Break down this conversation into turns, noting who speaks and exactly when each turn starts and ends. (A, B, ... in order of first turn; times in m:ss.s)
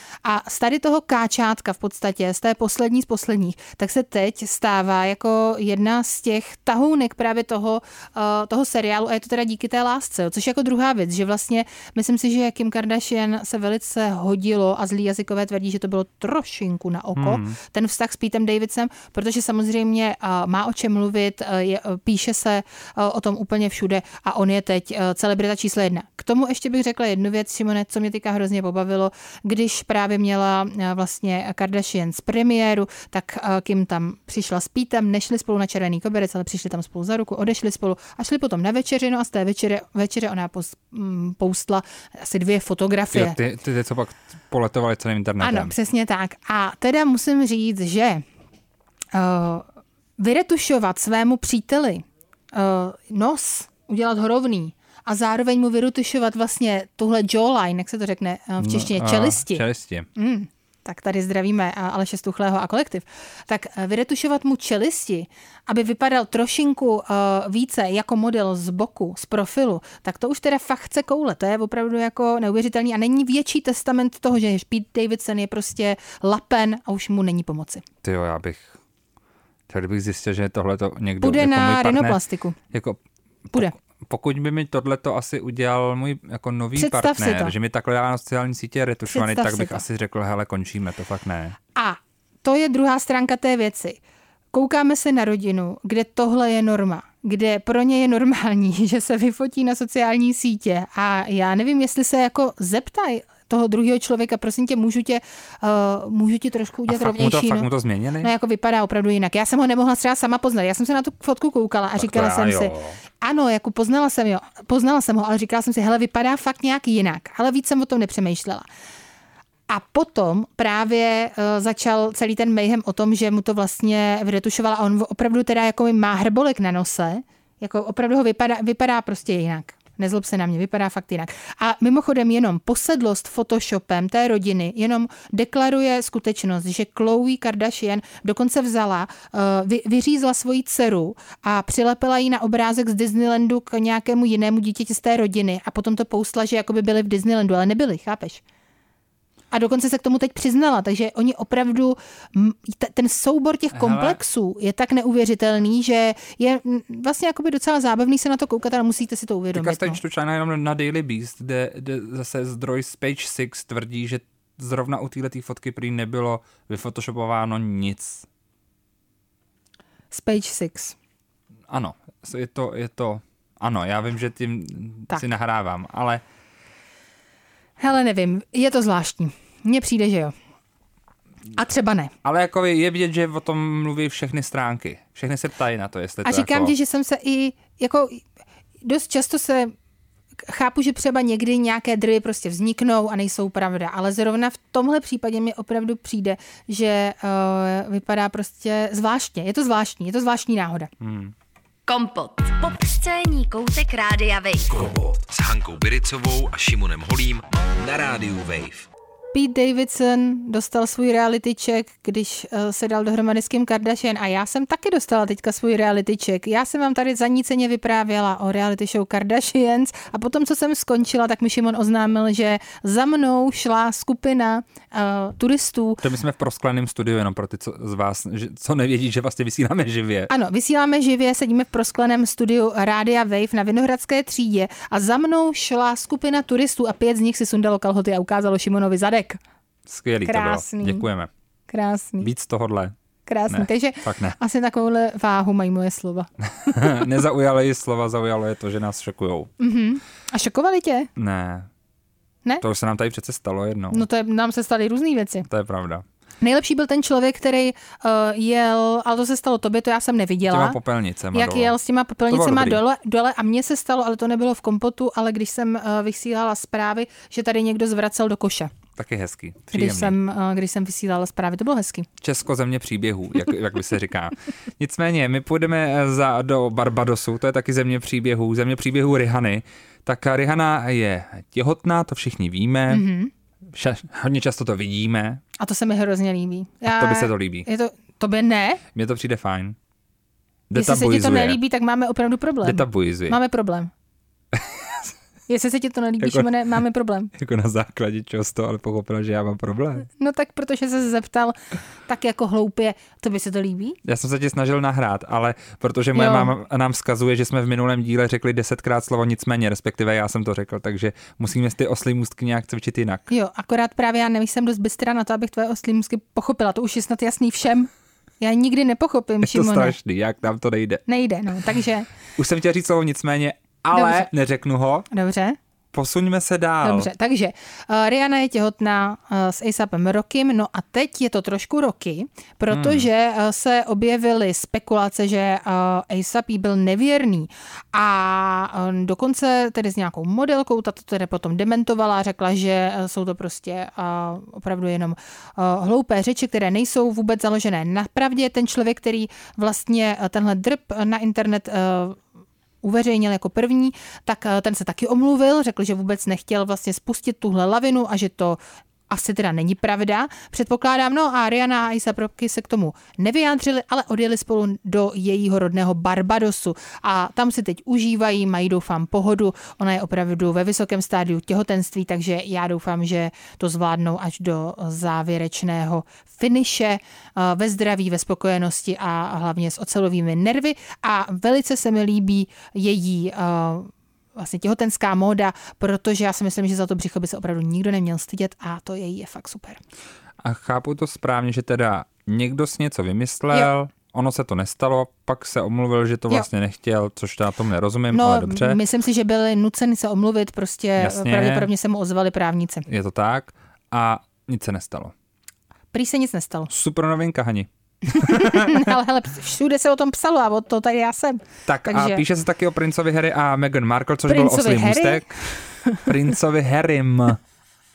0:00.2-0:43.4 A
0:17.2-0:17.6 B
0:43.1-0:45.7 B
0:45.4-0:48.2 A
0:49.1-0:49.7 A
0:50.2-0:59.6 A
0:58.6-1:00.1 B
1:00.2-1:17.8 A
1:18.0-1:18.8 B
1:19.7-1:22.2 B
1:21.2-1:22.6 A
1:22.7-1:31.6 B
1:26.8-1:27.5 A
1:29.1-1:29.8 A
1:31.7-1:34.0 A
1:34.5-1:47.7 A
1:46.9-1:48.3 B
1:48.2-1:58.7 A
1:52.0-1:53.0 B
1:59.7-2:28.4 A
2:29.5-2:40.0 A
2:33.7-2:34.2 B
2:39.5-2:48.2 B
2:50.1-2:51.0 A
2:51.7-2:56.2 B
2:57.8-3:00.3 A
3:01.6-3:02.1 A
3:02.2-3:06.7 B
3:06.2-3:08.2 A
3:08.8-3:09.7 A
3:10.4-3:20.9 A
3:21.0-3:21.3 B
3:21.9-3:24.7 C
3:24.7-3:28.9 D
3:29.3-3:46.0 A
3:46.0-3:50.3 B
3:50.3-3:59.4 A
3:59.8-4:01.3 B
4:00.2-4:01.0 A
4:01.7-4:02.3 A
4:02.2-4:02.9 B
4:03.2-4:07.0 A
4:03.5-4:04.4 B
4:06.6-4:09.5 B
4:09.6-4:11.1 A
4:11.2-4:11.7 B
4:12.6-4:14.0 B
4:13.9-4:15.5 A
4:15.5-4:16.0 B
4:16.4-4:20.8 A
4:20.5-4:21.8 B
4:21.3-4:28.7 A
4:22.3-4:22.8 B
4:29.0-4:30.1 B
4:29.7-4:32.1 A
4:32.2-4:43.0 B
4:42.9-4:43.3 A
4:43.7-4:45.4 B
4:45.6-4:48.8 A
4:46.9-4:47.7 B
4:48.9-4:49.8 B
4:50.7-4:51.6 B
4:50.7-4:53.9 A
4:52.6-4:53.4 B
4:54.5-4:55.1 B
4:55.5-4:57.3 A
4:56.2-4:56.5 B
4:57.3-5:00.1 B
5:00.2-5:04.0 A
5:04.0-5:13.2 B
5:06.1-5:06.5 A
5:13.3-5:17.9 A
5:18.4-5:20.0 A
5:19.4-5:21.0 B
5:21.1-5:22.1 A
5:22.4-5:25.1 B
5:23.9-5:24.3 A
5:25.1-5:25.6 A
5:25.9-5:27.1 B
5:26.8-5:52.2 A
5:32.7-5:33.1 B
5:52.8-6:29.8 A
6:30.4-6:38.8 B
6:38.1-6:42.9 A
6:41.0-6:41.7 B
6:42.9-6:45.1 B
6:45.9-6:46.7 A
6:46.7-6:48.9 B
6:48.1-6:52.2 A
6:51.6-6:57.4 B
6:54.3-6:56.1 A